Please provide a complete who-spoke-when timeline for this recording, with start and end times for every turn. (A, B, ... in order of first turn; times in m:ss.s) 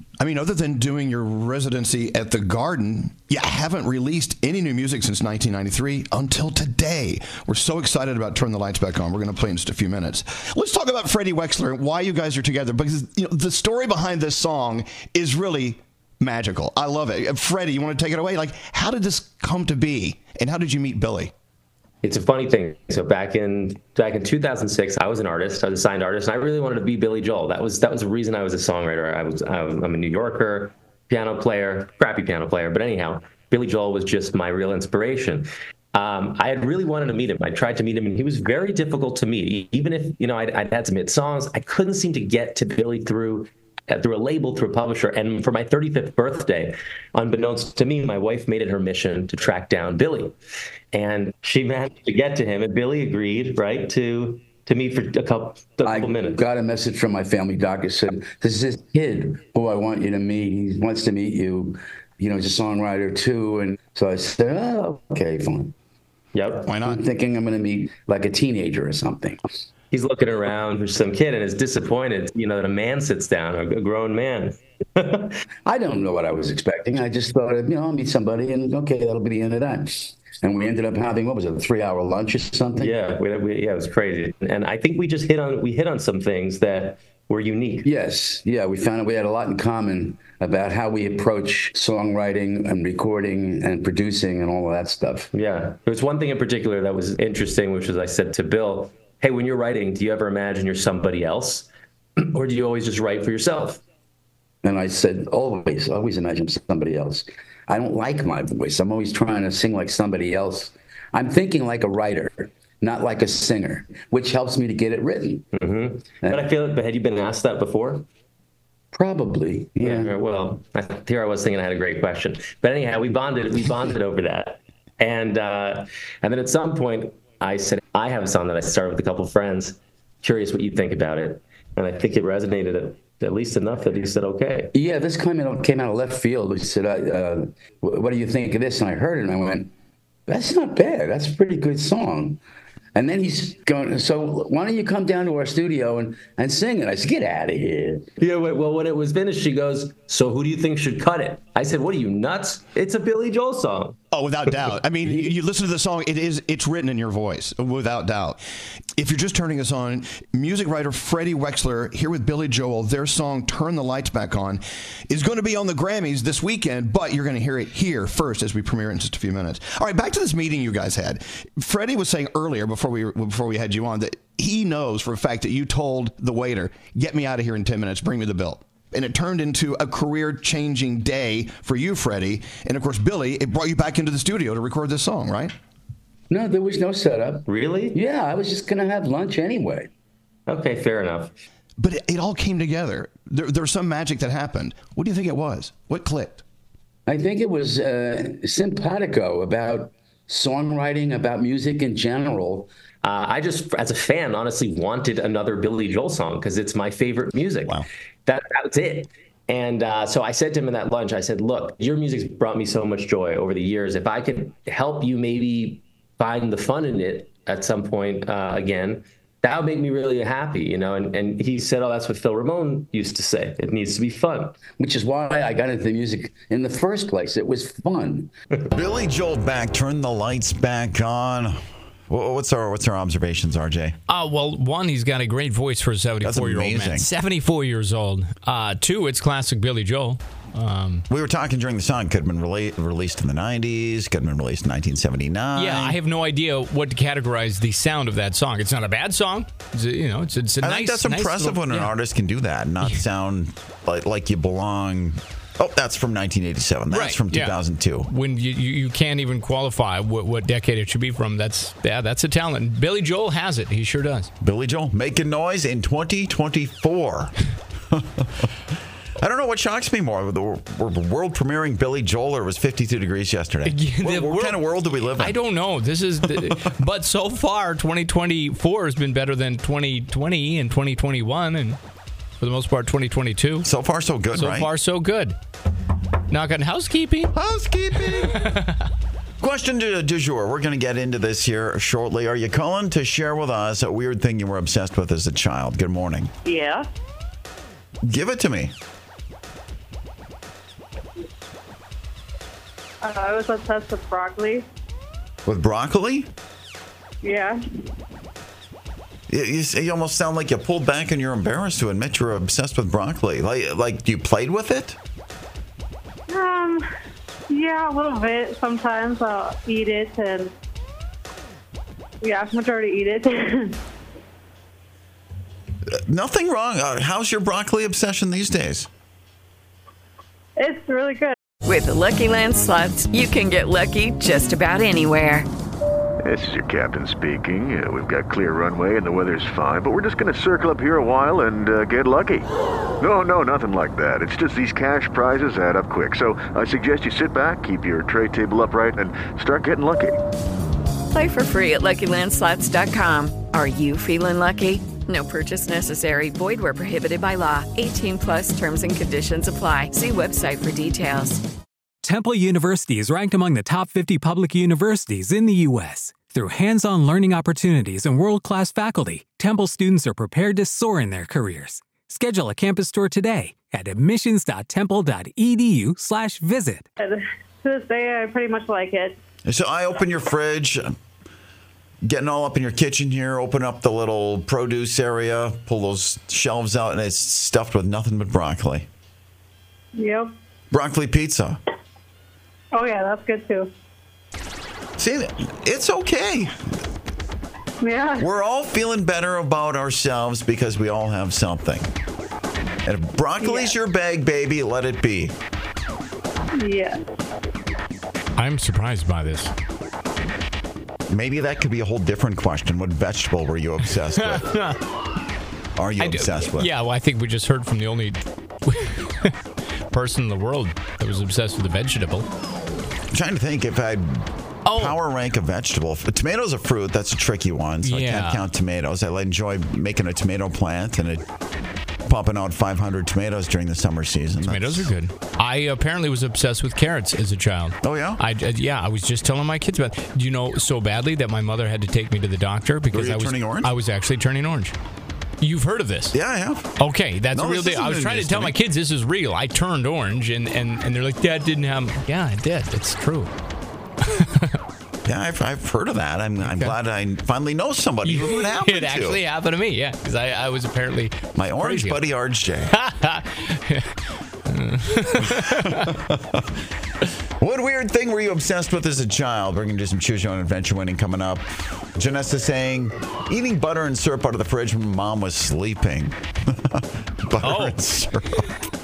0:00.2-0:21.3 A
0:22.0-0:50.3 B
0:50.9-0:56.4 B
0:55.8-1:05.7 C
1:06.3-1:06.7 B
1:06.7-1:07.0 A
1:06.8-1:09.4 C
1:09.9-1:15.4 B
1:15.6-1:22.9 C
1:22.8-1:27.9 B
1:27.8-1:35.3 C
1:35.3-1:43.8 B
1:44.6-1:55.4 C
1:55.5-1:58.0 B
1:58.9-2:00.1 C
1:59.8-2:14.7 B
2:14.7-2:19.7 C
2:20.3-2:22.4 C
2:22.9-2:28.0 C
2:28.2-2:34.0 B
2:34.1-2:38.4 A
2:34.5-2:34.7 B
2:39.0-3:05.5 A
3:06.3-3:09.9 C
3:07.5-3:08.0 B
3:10.5-3:11.3 B
3:11.8-3:16.4 A
3:17.1-3:22.7 C
3:23.0-3:44.6 B
3:44.8-3:48.3 C
3:48.7-3:54.0 D
3:54.1-4:01.0 E
3:56.2-3:57.1 D
4:01.1-4:06.0 D
4:05.6-4:11.9 E
4:10.6-4:18.1 D
4:16.9-4:24.3 E
4:24.4-4:27.3 D
4:27.9-4:28.5 D
4:29.2-4:35.4 D
4:33.6-4:34.6 E
4:35.2-4:41.8 E
4:36.3-4:36.7 D
4:42.4-4:43.7 E
4:43.6-4:44.7 D
4:44.3-4:45.4 E
4:46.3-4:47.3 E
4:47.3-4:48.4 D
4:48.0-4:48.8 E
4:49.4-4:56.3 D
4:56.4-4:56.9 F
4:58.0-4:58.7 D
5:03.0-5:04.6 F
5:05.4-5:06.3 D
5:07.2-5:07.6 F
5:09.3-5:15.0 D
5:16.3-5:16.8 F
5:17.5-5:20.5 F
5:22.2-5:23.8 F
5:25.9-5:28.9 D
5:30.6-5:31.3 F
5:31.6-5:35.5 G
5:36.2-5:42.5 H
5:43.0-5:50.2 H
5:51.1-6:01.4 G
6:02.0-6:16.8 I
6:17.0-6:19.2 F
6:19.4-6:21.0 D
6:22.0-6:28.9 D
6:30.0-6:30.3 F
6:30.7-6:31.6 D
6:32.7-6:33.7 F
6:35.0-6:36.6 D
6:37.8-6:38.2 F
6:38.2-6:41.9 D
6:42.8-6:45.3 D
6:43.4-6:43.7 F
6:46.6-6:47.0 F
6:48.4-6:49.5 E
6:51.1-6:54.5 D
6:54.2-6:54.8 E
6:55.8-6:56.7 D
6:56.0-6:59.4 E
6:59.9-7:02.3 E
7:03.1-7:11.2 D
7:04.6-7:05.0 E
7:07.8-7:08.4 E
7:12.0-7:14.9 D
7:14.4-7:24.7 E
7:17.8-7:18.2 D
7:22.9-7:23.7 D
7:25.4-7:26.1 E
7:26.1-7:26.7 D
7:26.8-7:33.3 E
7:27.3-7:28.6 D
7:34.0-7:34.6 E
7:35.0-7:39.2 D
7:36.4-7:36.7 E
7:38.0-7:42.0 E
7:41.3-7:42.7 D
7:42.7-7:43.9 E
7:44.5-7:45.9 E
7:45.2-7:46.5 D
7:47.4-7:58.4 D
7:57.4-7:57.8 E